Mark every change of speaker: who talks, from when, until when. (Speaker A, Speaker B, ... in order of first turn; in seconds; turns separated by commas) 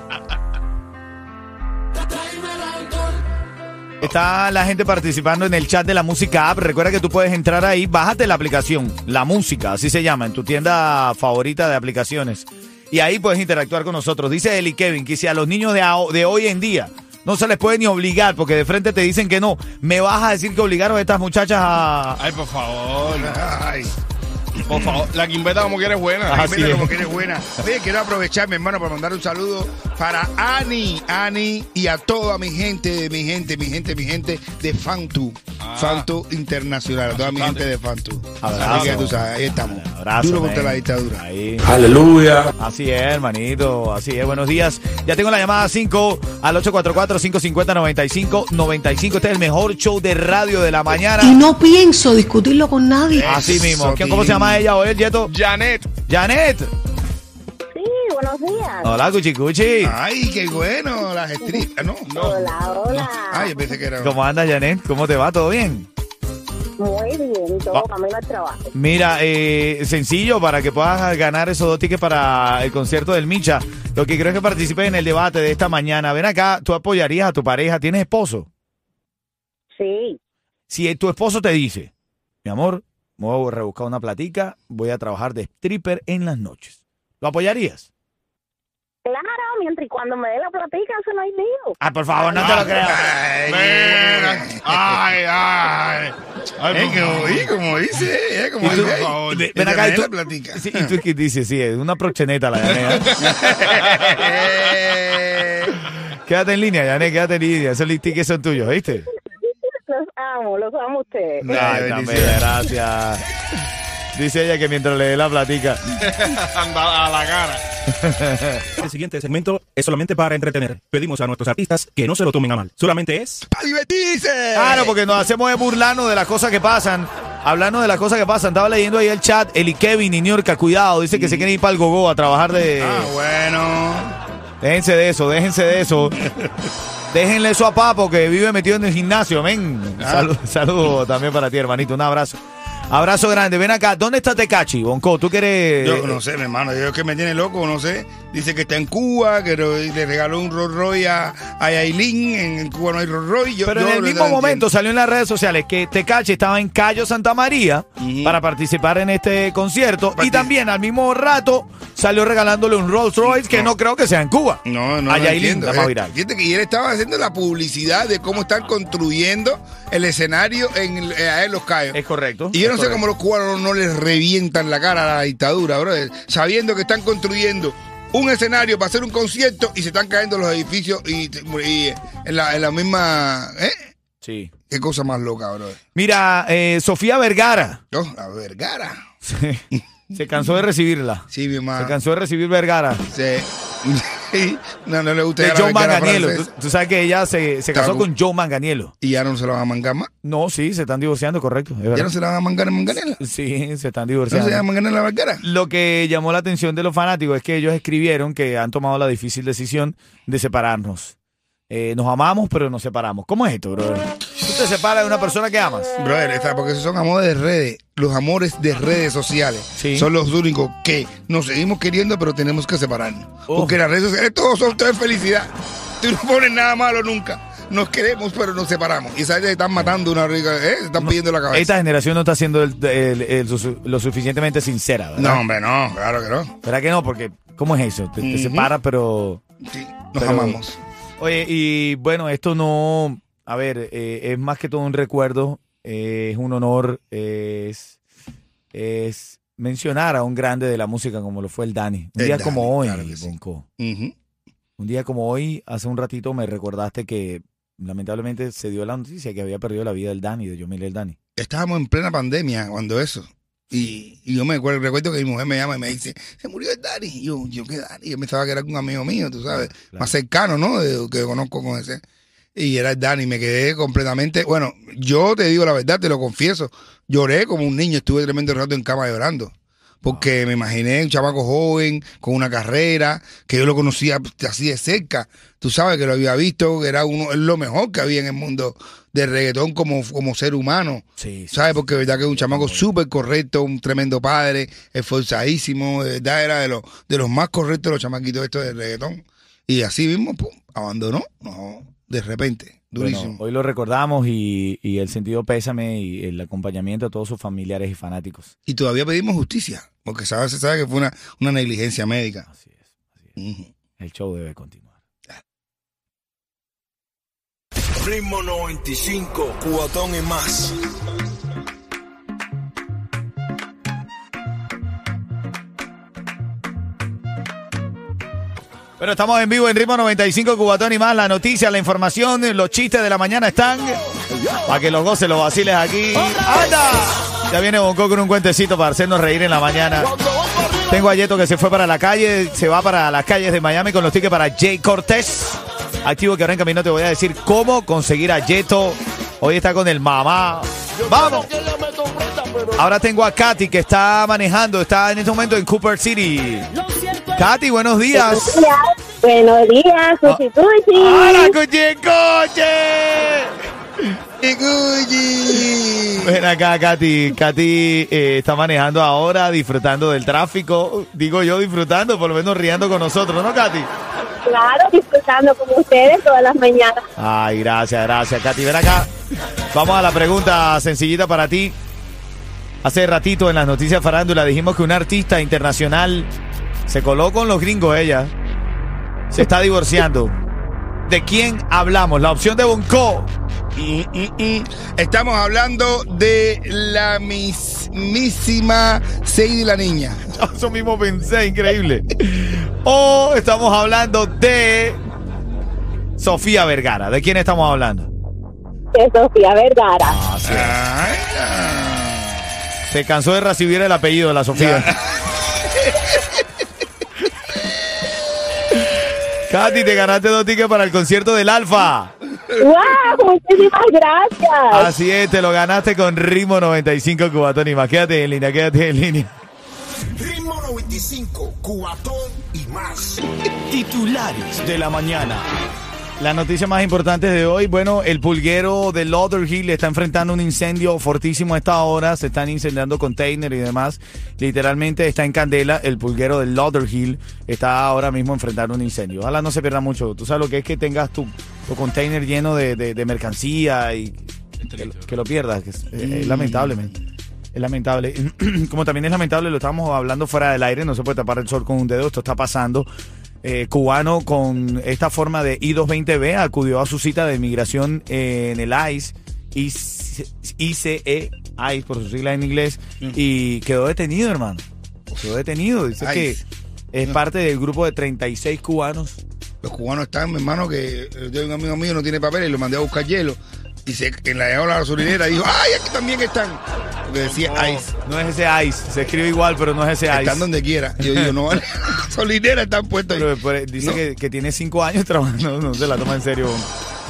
Speaker A: 4.0-22.2, Speaker B: 22.2-23.4, Speaker C: 23.1-23.9, Speaker B: 24.6-26.5, Speaker C: 24.7-25.0, Speaker A: 26.3-26.9, Speaker C: 26.3-41.2, Speaker B: 35.6-36.1, Speaker B: 37.1-37.6, Speaker A: 38.4-41.9, Speaker B: 38.5-39.0, Speaker D: 41.7-42.5, Speaker A: 42.6-51.4, Speaker E: 51.2-53.3, Speaker C: 53.1-54.6, Speaker A: 53.2-55.3, Speaker B: 55.3-55.9, Speaker A: 56.0-56.7, Speaker F: 57.7-58.9, Speaker A: 58.8-59.9, Speaker C: 59.8-62.1, Speaker F: 61.4-63.5, Speaker B: 62.0-63.1, Speaker C: 63.3-64.2, Speaker A: 64.0-65.9, Speaker F: 66.8-68.7, Speaker A: 68.7-78.5, Speaker F: 79.8-80.2, Speaker A: 80.7-81.9, Speaker A: 82.4-87.9, Speaker F: 89.0-91.8, Speaker A: 91.8-93.1, Speaker C: 92.4-94.7, Speaker B: 92.4-92.8, Speaker B: 93.4-97.5, Speaker C: 96.7-100.9, Speaker A: 98.6-103.3, Speaker B: 98.6-99.4, Speaker C: 103.2-105.8, Speaker B: 103.7-104.1, Speaker A: 105.8-109.1, Speaker F: 109.3-111.8, Speaker A: 111.4-113.2, Speaker C: 111.4-112.4, Speaker A: 114.1-115.8, Speaker B: 116.0-117.6, Speaker A: 117.9-118.7, Speaker G: 118.8-123.4, Speaker C: 123.5-125.0, Speaker A: 124.5-133.1, Speaker C: 131.1-131.5, Speaker C: 132.8-134.2, Speaker A: 134.6-136.3, Speaker A: 137.1-142.4, Speaker C: 140.0-140.3, Speaker A: 142.9-146.2, Speaker C: 145.8-154.7, Speaker A: 153.7-166.1, Speaker C: 158.0-158.4, Speaker C: 160.1-160.5, Speaker C: 163.2-163.7, Speaker C: 164.6-172.0, Speaker A: 171.9-173.0, Speaker C: 172.5-183.9, Speaker A: 184.2-184.5, Speaker C: 184.7-185.8, Speaker A: 185.9-187.8, Speaker C: 187.9-189.0, Speaker A: 189.2-189.6, Speaker C: 189.7-190.2, Speaker A: 190.1-193.0, Speaker C: 191.3-192.0, Speaker C: 193.1-196.5, Speaker A: 195.4-198.9, Speaker C: 197.7-198.1, Speaker C: 199.0-200.1, Speaker A: 200.2-202.1, Speaker C: 201.9-203.2, Speaker A: 203.2-204.6, Speaker C: 204.3-205.4, Speaker A: 205.4-211.1, Speaker A: 211.7-215.9, Speaker C: 215.9-231.7, Speaker A: 219.8-220.1, Speaker A: 223.5-223.8, Speaker A: 231.0-235.4, Speaker C: 235.2-236.5, Speaker A: 236.6-239.4, Speaker C: 238.2-238.7, Speaker C: 239.7-240.8, Speaker A: 240.2-240.6, Speaker A: 241.2-247.9, Speaker A: 248.7-253.6, Speaker C: 252.2-254.1, Speaker A: 254.8-261.1, Speaker C: 261.4-272.0, Speaker A: 269.5-270.1, Speaker C: 272.5-303.4, Speaker A: 291.2-292.9, Speaker A: 303.0-308.5, Speaker C: 308.7-312.5, Speaker A: 312.5-313.3, Speaker C: 313.4-313.7, Speaker A: 314.0-314.9, Speaker D: 318.0-320.8, Speaker A: 329.0-334.0, Speaker A: 334.6-340.1, Speaker A: 340.9-351.5, Speaker D: 351.6-352.4, Speaker A: 352.7-356.7, Speaker A: 357.2-358.6, Speaker F: 358.1-361.5, Speaker A: 360.9-363.5, Speaker C: 364.4-366.4, Speaker A: 366.2-373.9, Speaker F: 374.4-377.0, Speaker A: 377.2-379.1, Speaker A: 379.7-381.8, Speaker A: 382.8-386.3, Speaker A: 386.9-388.3, Speaker A: 389.3-390.3, Speaker A: 391.1-393.3, Speaker C: 393.8-400.2, Speaker A: 400.4-405.0, Speaker A: 406.2-408.1, Speaker F: 408.9-410.2, Speaker A: 410.1-410.8, Speaker C: 410.4-412.4, Speaker A: 412.9-414.9, Speaker C: 414.5-415.3, Speaker A: 419.4-422.1, Speaker F: 422.6-424.9, Speaker A: 424.7-429.3, Speaker D: 430.1-433.2, Speaker A: 433.7-435.4, Speaker A: 436.2-454.2, Speaker B: 454.6-455.1, Speaker A: 454.8-456.9, Speaker C: 455.9-457.0, Speaker A: 457.5-462.9, Speaker A: 463.4-474.6, Speaker A: 475.2-476.4, Speaker C: 476.0-476.4, Speaker A: 476.9-479.2, Speaker C: 479.6-487.9, Speaker B: 487.1-487.9, Speaker A: 488.0-490.5, Speaker C: 490.1-493.3, Speaker A: 493.1-496.7